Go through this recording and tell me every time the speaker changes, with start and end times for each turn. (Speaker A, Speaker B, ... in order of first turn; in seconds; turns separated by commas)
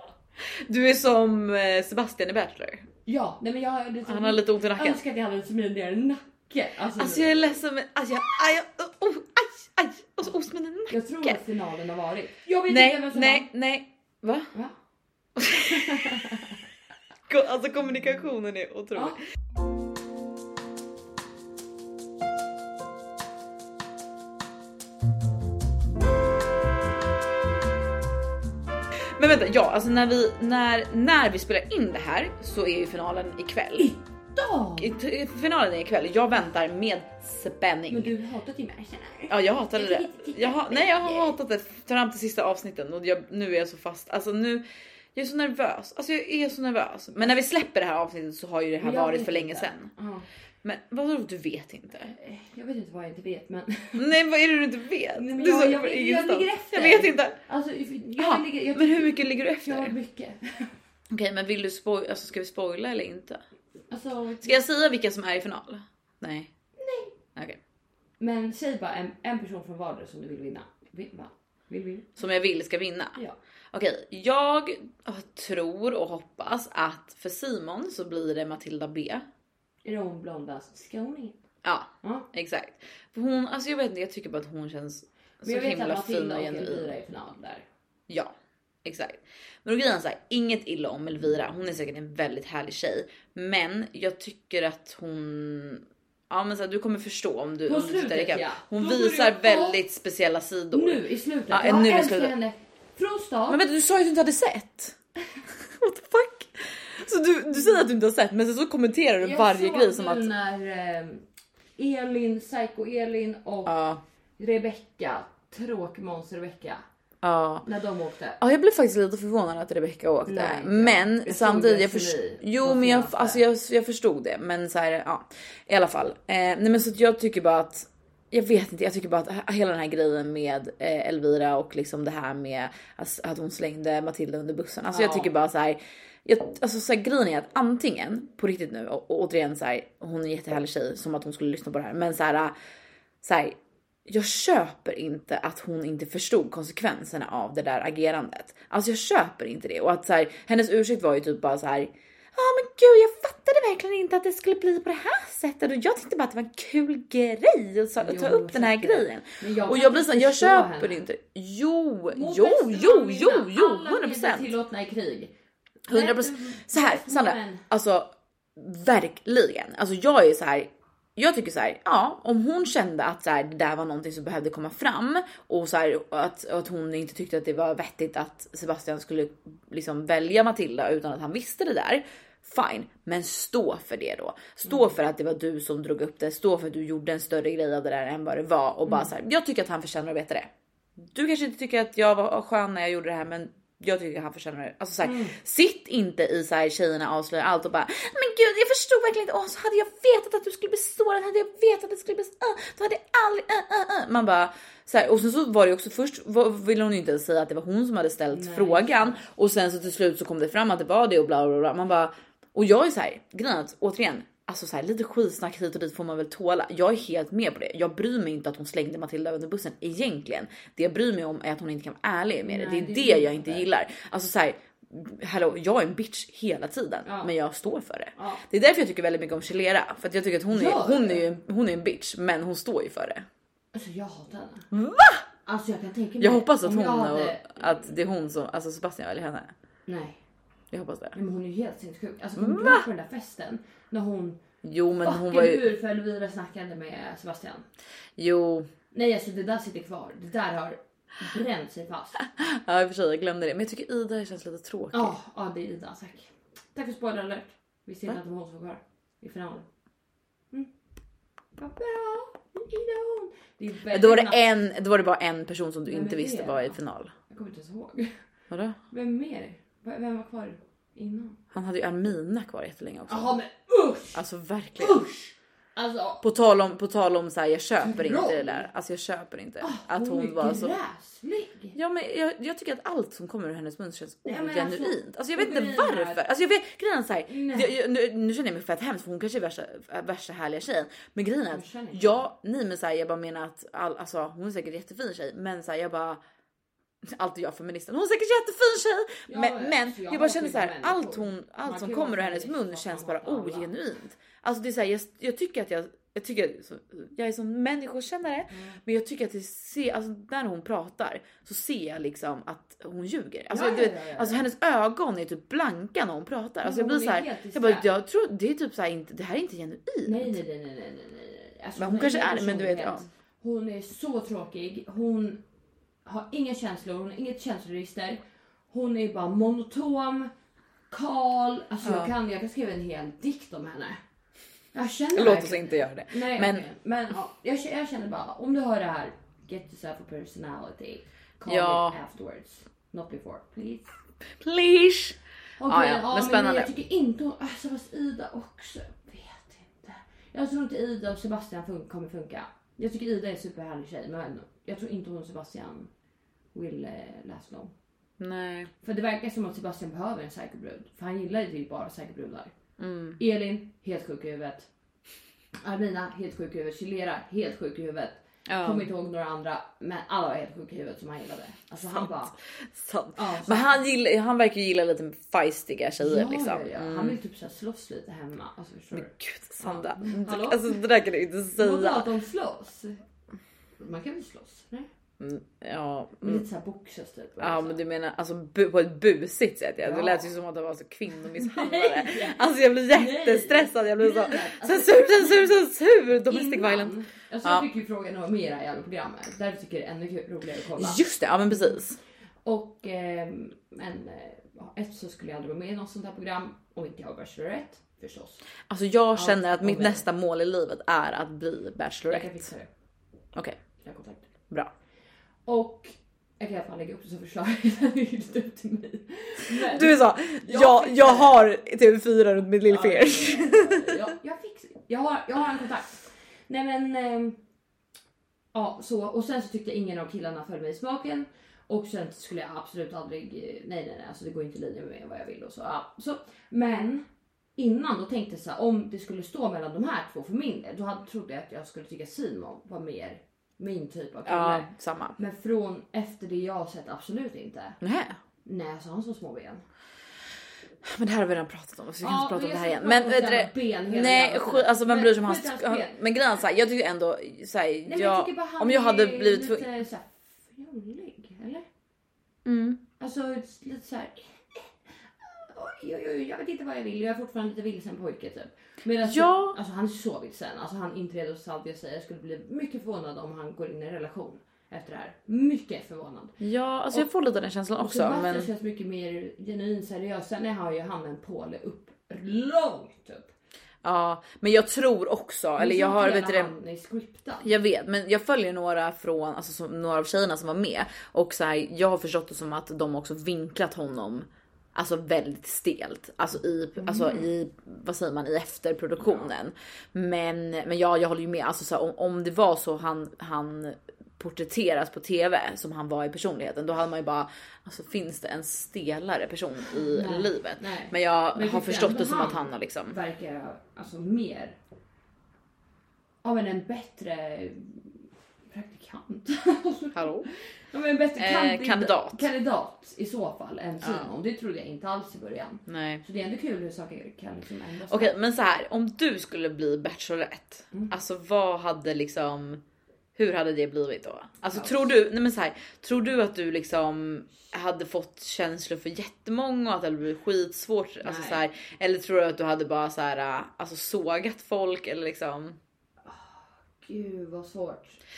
Speaker A: 0.7-2.9, Speaker B: 3.0-7.6, Speaker A: 4.0-5.0, Speaker A: 7.0-11.4, Speaker B: 10.9-13.5, Speaker A: 12.7-14.5, Speaker A: 15.3-16.2, Speaker B: 15.5-16.6, Speaker A: 17.3-19.2, Speaker A: 29.2-33.9, Speaker B: 33.8-34.9, Speaker A: 34.8-38.1, Speaker B: 37.9-41.3, Speaker A: 39.3-44.6, Speaker A: 45.1-49.9, Speaker B: 48.8-50.3, Speaker A: 50.6-52.1, Speaker B: 52.1-54.1, Speaker A: 54.0-57.4, Speaker B: 55.1-60.7, Speaker A: 58.2-59.9, Speaker A: 61.1-63.4, Speaker B: 63.9-64.5, Speaker A: 64.4-66.5, Speaker B: 66.8-67.1, Speaker B: 68.2-72.1, Speaker A: 72.2-73.2, Speaker A: 73.7-79.2, Speaker B: 79.8-81.4, Speaker A: 81.6-86.9, Speaker B: 85.4-87.6, Speaker A: 88.8-102.3, Speaker B: 97.7-99.8, Speaker B: 100.7-103.6, Speaker A: 103.5-105.0, Speaker A: 105.5-110.3, Speaker B: 109.2-111.2, Speaker B: 111.8-113.8, Speaker A: 113.7-114.0, Speaker B: 114.4-116.8, Speaker A: 117.2-117.6, Speaker B: 117.6-118.4, Speaker A: 118.4-142.5, Speaker B: 120.2-123.4, Speaker B: 134.9-135.3, Speaker A: 143.2-164.5, Speaker B: 158.0-161.0, Speaker B: 162.1-165.3, Speaker B: 165.8-167.6, Speaker A: 165.9-190.5, Speaker B: 188.8-189.1, Speaker A: 191.0-233.2, Speaker B: 195.0-195.3, Speaker B: 208.3-209.2, Speaker B: 222.4-223.7, Speaker B: 227.0-227.3, Speaker B: 228.2-228.4, Speaker B: 230.5-231.2, Speaker B: 233.7-234.7, Speaker A: 234.7-235.2, Speaker B: 235.4-237.9, Speaker A: 236.2-239.5, Speaker B: 239.9-240.2, Speaker A: 240.7-241.2, Speaker B: 241.1-244.4, Speaker A: 242.4-242.8, Speaker A: 244.6-245.6, Speaker B: 245.0-247.7, Speaker A: 248.2-248.7, Speaker B: 248.9-252.3, Speaker A: 252.3-255.1, Speaker B: 254.9-259.6, Speaker B: 261.6-264.4, Speaker A: 263.9-267.1, Speaker B: 265.9-266.8, Speaker B: 267.3-268.1, Speaker A: 268.5-268.8, Speaker B: 268.9-271.4, Speaker A: 271.5-273.3, Speaker B: 273.1-274.2, Speaker A: 274.1-275.0, Speaker B: 274.8-276.2, Speaker A: 276.2-280.8, Speaker B: 277.8-278.7, Speaker B: 279.6-281.8, Speaker A: 281.7-296.2, Speaker B: 284.2-286.2, Speaker B: 287.3-287.7, Speaker B: 291.5-292.3, Speaker A: 297.0-320.4, Speaker B: 299.3-303.7, Speaker B: 308.5-308.8, Speaker B: 313.5-314.4, Speaker B: 316.6-317.9, Speaker B: 320.1-325.4, Speaker A: 321.8-323.1, Speaker B: 326.0-330.3, Speaker B: 330.9-334.0, Speaker A: 331.8-332.1, Speaker B: 334.7-343.9, Speaker A: 335.1-336.6, Speaker A: 341.5-342.0, Speaker A: 344.4-346.7, Speaker B: 345.6-355.9, Speaker B: 356.5-357.7, Speaker A: 358.2-358.7, Speaker B: 358.8-362.5, Speaker A: 362.8-363.2, Speaker B: 363.2-364.7, Speaker B: 365.6-372.4, Speaker A: 368.5-368.9, Speaker A: 371.9-377.2, Speaker B: 373.1-373.7, Speaker B: 376.0-380.8, Speaker A: 378.9-382.1, Speaker B: 381.6-383.0, Speaker B: 383.8-384.9, Speaker A: 385.2-386.4, Speaker B: 386.2-387.8, Speaker A: 387.4-397.6, Speaker B: 389.8-390.3, Speaker B: 391.4-395.5, Speaker B: 396.2-401.0, Speaker A: 400.8-402.0, Speaker B: 402.4-408.4, Speaker A: 408.7-412.4, Speaker B: 409.1-410.0, Speaker B: 412.1-412.7, Speaker B: 413.8-414.2, Speaker B: 415.4-421.4, Speaker A: 419.5-424.0, Speaker B: 422.6-427.4, Speaker B: 428.5-437.0, Speaker B: 437.6-447.8, Speaker A: 444.2-445.2, Speaker A: 447.8-448.2, Speaker B: 448.4-449.6, Speaker A: 450.8-459.6, Speaker B: 452.0-455.9, Speaker B: 457.9-461.6, Speaker A: 462.4-462.8, Speaker B: 463.0-476.4, Speaker A: 469.0-469.6, Speaker A: 476.4-478.5, Speaker B: 477.8-483.3, Speaker A: 483.8-486.5, Speaker B: 485.6-487.5, Speaker A: 487.4-513.0, Speaker B: 496.8-497.2, Speaker B: 509.9-514.5, Speaker B: 516.2-517.9, Speaker B: 518.5-528.1, Speaker A: 519.9-520.3, Speaker A: 521.1-522.2, Speaker A: 523.8-524.1, Speaker A: 525.7-526.0, Speaker A: 527.9-532.6, Speaker A: 533.1-545.6, Speaker B: 534.5-534.9, Speaker B: 541.0-541.4, Speaker B: 546.0-548.0